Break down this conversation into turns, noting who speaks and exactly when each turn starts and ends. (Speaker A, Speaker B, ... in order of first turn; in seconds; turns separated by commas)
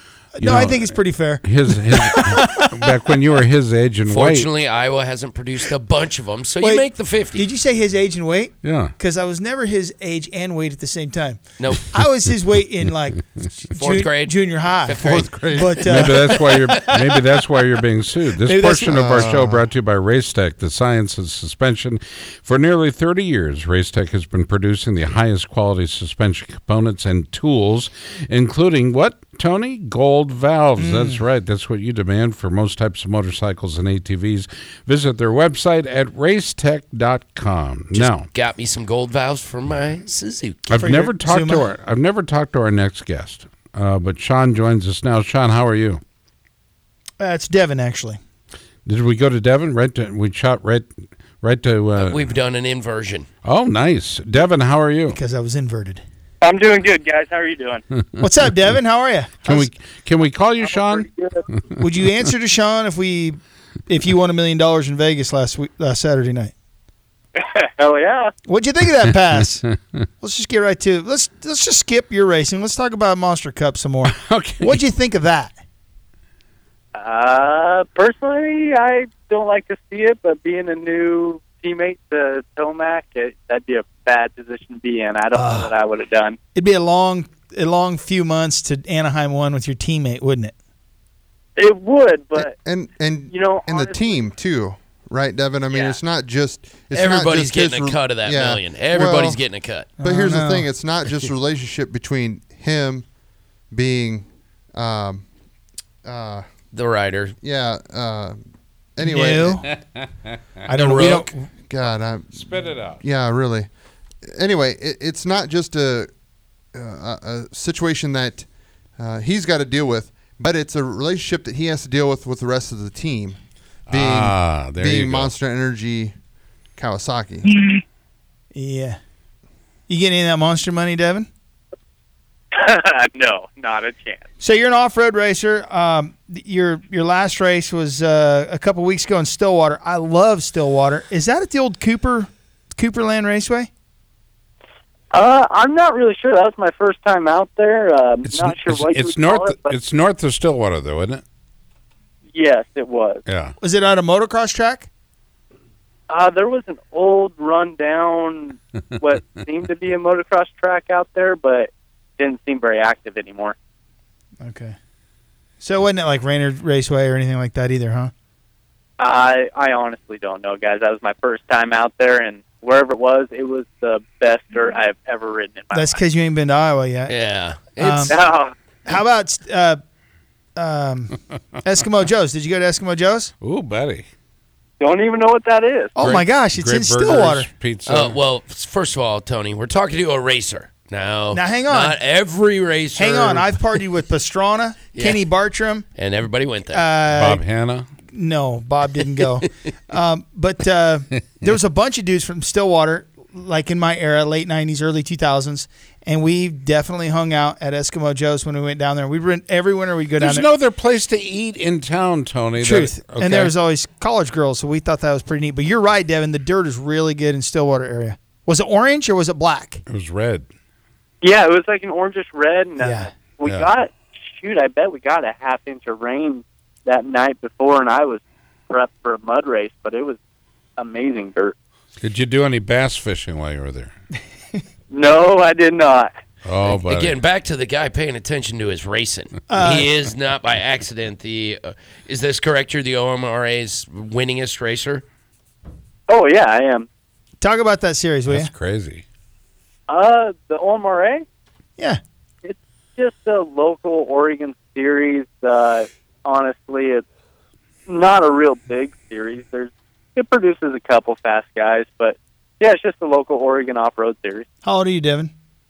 Speaker A: 0.3-2.5, Speaker B: 0.4-4.5, Speaker C: 4.0-7.5, Speaker A: 6.6-17.1, Speaker B: 8.6-8.9, Speaker C: 11.6-12.0, Speaker C: 13.8-16.7, Speaker D: 15.0-15.8, Speaker B: 15.8-38.3, Speaker A: 18.4-19.4, Speaker D: 18.9-19.7, Speaker A: 30.8-31.2, Speaker C: 37.9-40.9, Speaker B: 40.7-46.0, Speaker A: 40.7-41.7, Speaker A: 47.2-48.2, Speaker B: 48.9-52.3, Speaker C: 52.0-53.3, Speaker B: 53.4-55.2, Speaker A: 55.1-56.0, Speaker E: 56.4-57.8, Speaker A: 58.2-59.7, Speaker B: 59.4-61.1, Speaker E: 60.6-61.4, Speaker A: 61.8-66.5, Speaker E: 67.3-68.3, Speaker A: 68.5-69.6, Speaker A: 70.2-75.5, Speaker B: 74.0-74.8, Speaker E: 76.9-86.4, Speaker A: 85.3-85.7, Speaker A: 86.5-90.5, Speaker E: 91.5-92.5, Speaker D: 92.3-99.4, Speaker E: 93.3-94.2, Speaker E: 95.7-96.0, Speaker C: 96.9-99.9, Speaker A: 100.0-100.7, Speaker D: 100.0-103.0, Speaker D: 103.7-105.2, Speaker D: 106.0-106.5, Speaker C: 106.7-107.3, Speaker D: 107.4-108.4, Speaker D: 109.0-109.6, Speaker A: 109.0-109.7, Speaker B: 109.6-110.3, Speaker A: 110.7-111.5, Speaker D: 110.7-113.7, Speaker C: 110.8-111.2, Speaker B: 110.9-111.2, Speaker B: 112.3-113.0, Speaker D: 114.2-116.1, Speaker D: 116.7-118.5, Speaker D: 119.0-123.4, Speaker B: 123.9-125.3, Speaker D: 123.9-126.1, Speaker D: 126.8-127.7, Speaker A: 128.5-129.0, Speaker A: 129.9-131.3, Speaker E: 132.5-134.2, Speaker A: 134.4-143.7, Speaker E: 145.1-149.8, Speaker B: 148.2-151.2, Speaker E: 152.3-153.2, Speaker B: 153.3-153.5, Speaker A: 153.6-154.9, Speaker E: 156.1-163.5, Speaker A: 164.4-164.8, Speaker A: 165.6-168.1, Speaker E: 169.0-176.0, Speaker A: 175.7-177.2, Speaker C: 177.1-178.2, Speaker A: 177.8-178.2, Speaker E: 178.1-178.5, Speaker A: 178.9-179.8, Speaker A: 180.6-183.3, Speaker B: 183.4-184.0, Speaker E: 184.8-185.9, Speaker A: 185.9-187.5, Speaker B: 186.0-188.2, Speaker C: 187.9-193.6, Speaker A: 191.3-192.0, Speaker A: 192.9-195.9, Speaker C: 194.9-195.2, Speaker C: 195.9-196.8, Speaker A: 196.7-197.4, Speaker B: 197.1-197.9, Speaker A: 198.1-210.5, Speaker B: 210.2-213.5, Speaker A: 212.6-219.8, Speaker B: 219.9-220.5, Speaker E: 221.2-230.2, Speaker A: 222.8-223.1, Speaker B: 223.4-223.7, Speaker E: 230.8-231.5, Speaker B: 232.0-233.9, Speaker E: 234.9-236.1, Speaker B: 236.4-237.2, Speaker C: 236.6-245.0, Speaker A: 239.5-239.9, Speaker E: 246.1-246.9, Speaker A: 247.4-248.5, Speaker B: 248.3-249.0, Speaker E: 249.9-251.2, Speaker E: 252.4-257.0, Speaker E: 257.9-264.4, Speaker A: 264.6-265.3